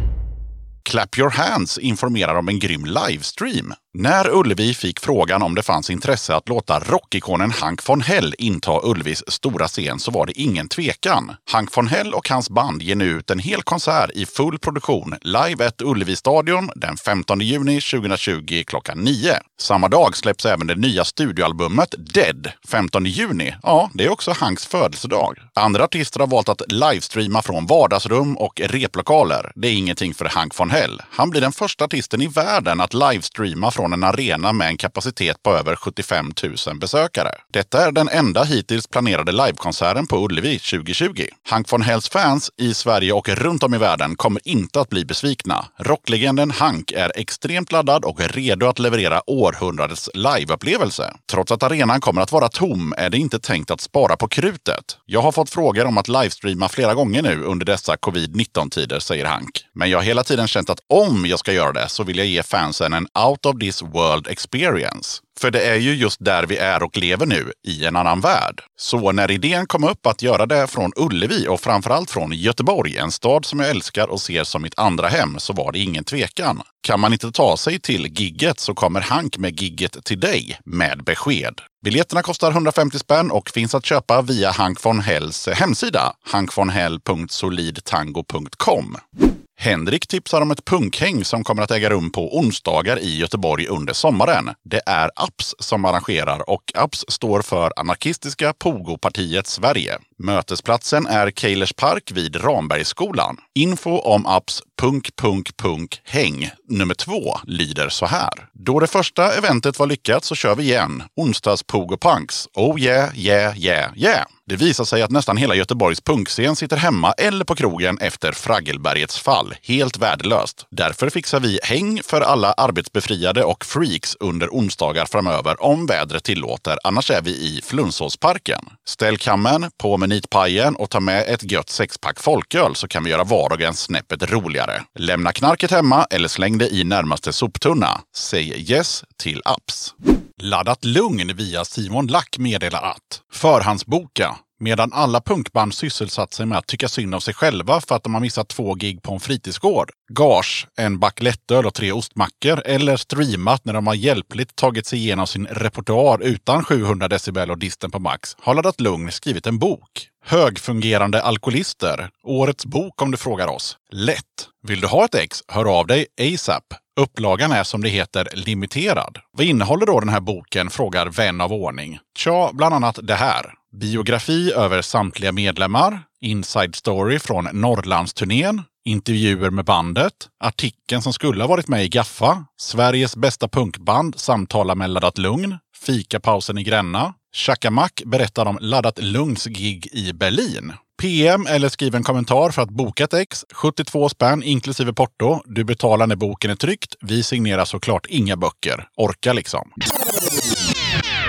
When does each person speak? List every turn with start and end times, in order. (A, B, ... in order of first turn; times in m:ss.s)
0:00.8-1:29.0 A
1:29.6-3:19.7 A